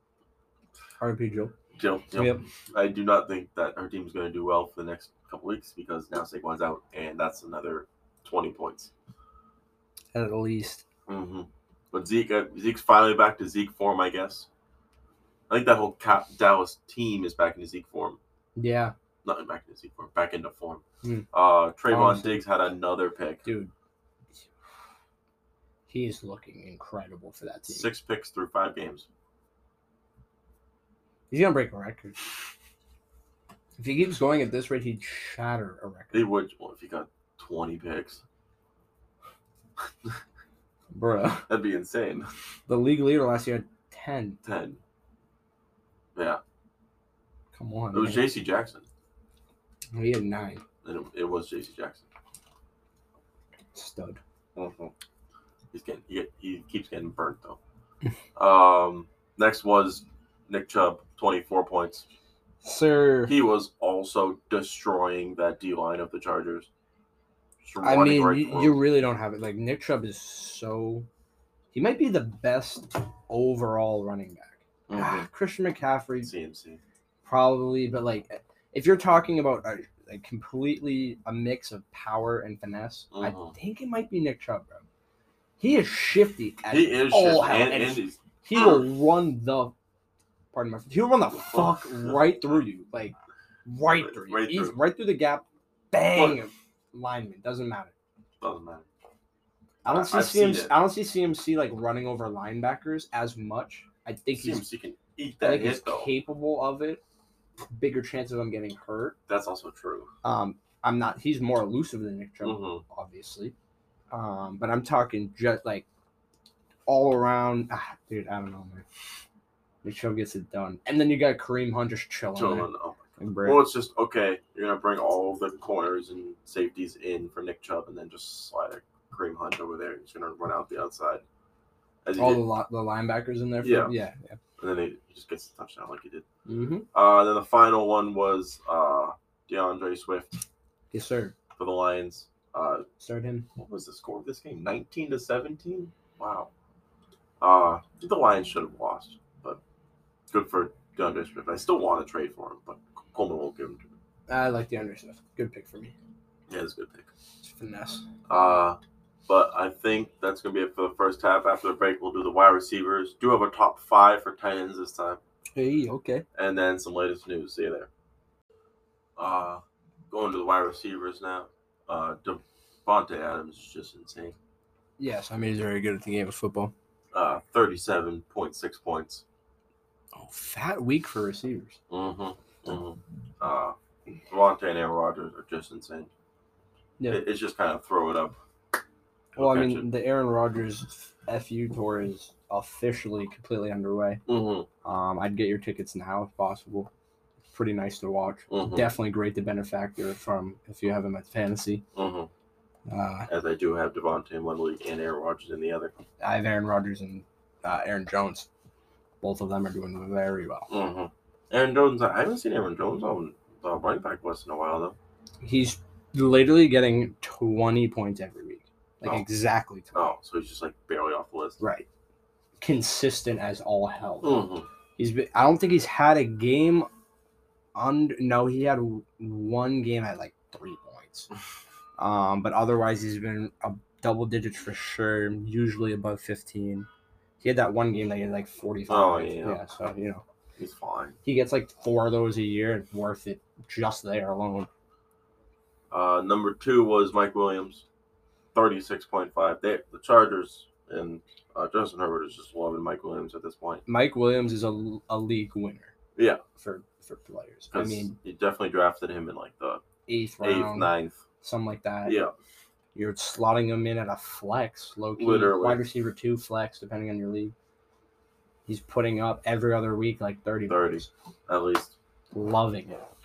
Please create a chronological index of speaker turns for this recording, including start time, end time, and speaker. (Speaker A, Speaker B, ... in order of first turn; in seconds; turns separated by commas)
Speaker A: 1.0-1.5, Speaker B: 1.8-8.9, Speaker A: 2.1-2.4, Speaker A: 10.1-10.8, Speaker B: 11.1-14.5, Speaker B: 15.5-18.2, Speaker A: 18.6-18.9, Speaker B: 19.2-23.4, Speaker A: 21.9-22.4, Speaker A: 23.4-23.7, Speaker A: 25.9-27.9, Speaker B: 27.7-29.1, Speaker A: 31.3-32.2, Speaker A: 33.8-36.3, Speaker B: 36.1-38.2, Speaker A: 40.9-41.5, Speaker B: 41.5-42.3, Speaker A: 42.7-44.4, Speaker B: 44.4-44.8, Speaker A: 47.5-48.3, Speaker B: 47.9-48.9, Speaker A: 49.9-50.6, Speaker B: 50.8-52.1, Speaker A: 53.7-54.2, Speaker B: 54.6-54.9, Speaker B: 55.7-57.6, Speaker B: 58.4-62.0, Speaker A: 62.6-63.4, Speaker B: 63.3-66.7, Speaker B: 67.6-68.8, Speaker A: 67.8-71.1, Speaker A: 71.7-76.3, Speaker B: 74.9-75.3, Speaker B: 76.2-76.8, Speaker A: 77.2-84.8, Speaker B: 83.1-83.5, Speaker A: 85.6-89.7, Speaker B: 86.7-88.8, Speaker A: 90.5-97.9, Speaker B: 91.4-92.2, Speaker B: 94.0-94.8, Speaker B: 96.1-96.4, Speaker B: 98.4-98.8, Speaker B: 99.8-100.8, Speaker A: 99.8-104.7, Speaker B: 104.3-106.1, Speaker A: 105.4-107.0, Speaker A: 107.7-109.2, Speaker B: 109.3-110.1, Speaker A: 110.2-113.5, Speaker B: 112.4-112.8, Speaker A: 114.1-115.9, Speaker A: 116.9-118.8, Speaker A: 119.8-122.7, Speaker B: 122.3-131.2, Speaker A: 123.2-123.6, Speaker B: 132.1-132.4, Speaker A: 132.2-134.4, Speaker B: 133.6-133.9, Speaker B: 134.6-136.2, Speaker A: 136.5-136.9, Speaker B: 136.9-140.4, Speaker A: 140.9-141.3, Speaker B: 141.6-142.9, Speaker A: 143.0-143.5, Speaker B: 143.6-146.5, Speaker B: 147.4-149.6, Speaker B: 150.3-153.9, Speaker A: 154.3-156.0, Speaker B: 156.5-157.1, Speaker A: 157.4-158.1, Speaker B: 158.3-165.2, Speaker A: 165.6-166.2, Speaker B: 166.3-167.9, Speaker B: 169.2-174.4, Speaker A: 175.0-176.7, Speaker B: 177.1-179.2, Speaker A: 180.1-181.8, Speaker B: 181.9-183.8, Speaker B: 184.3-186.1, Speaker B: 187.1-188.4, Speaker B: 189.4-189.9, Speaker A: 189.4-194.2, Speaker B: 194.3-194.7, Speaker A: 194.8-196.9, Speaker A: 197.5-201.8, Speaker B: 198.5-198.9, Speaker B: 201.9-202.3, Speaker A: 202.9-203.3, Speaker B: 203.3-205.9, Speaker A: 206.2-208.5, Speaker A: 209.2-210.7, Speaker B: 210.7-215.0, Speaker A: 215.4-220.1, Speaker B: 219.9-221.6, Speaker A: 221.6-221.9, Speaker A: 222.6-226.9, Speaker B: 224.2-224.7, Speaker A: 227.8-231.3, Speaker A: 232.0-236.9, Speaker A: 237.4-240.2, Speaker B: 238.9-239.6, Speaker B: 240.6-241.2, Speaker A: 241.2-244.7, Speaker B: 245.9-247.8, Speaker B: 248.5-253.8, Speaker A: 253.9-255.9, Speaker B: 256.2-256.4, Speaker A: 256.6-258.2, Speaker B: 257.7-259.8, Speaker A: 260.1-262.2, Speaker B: 260.4-261.2, Speaker B: 262.1-262.3, Speaker A: 262.9-267.5, Speaker B: 265.2-265.8, Speaker A: 268.7-271.1, Speaker B: 270.7-272.0, Speaker A: 272.3-273.0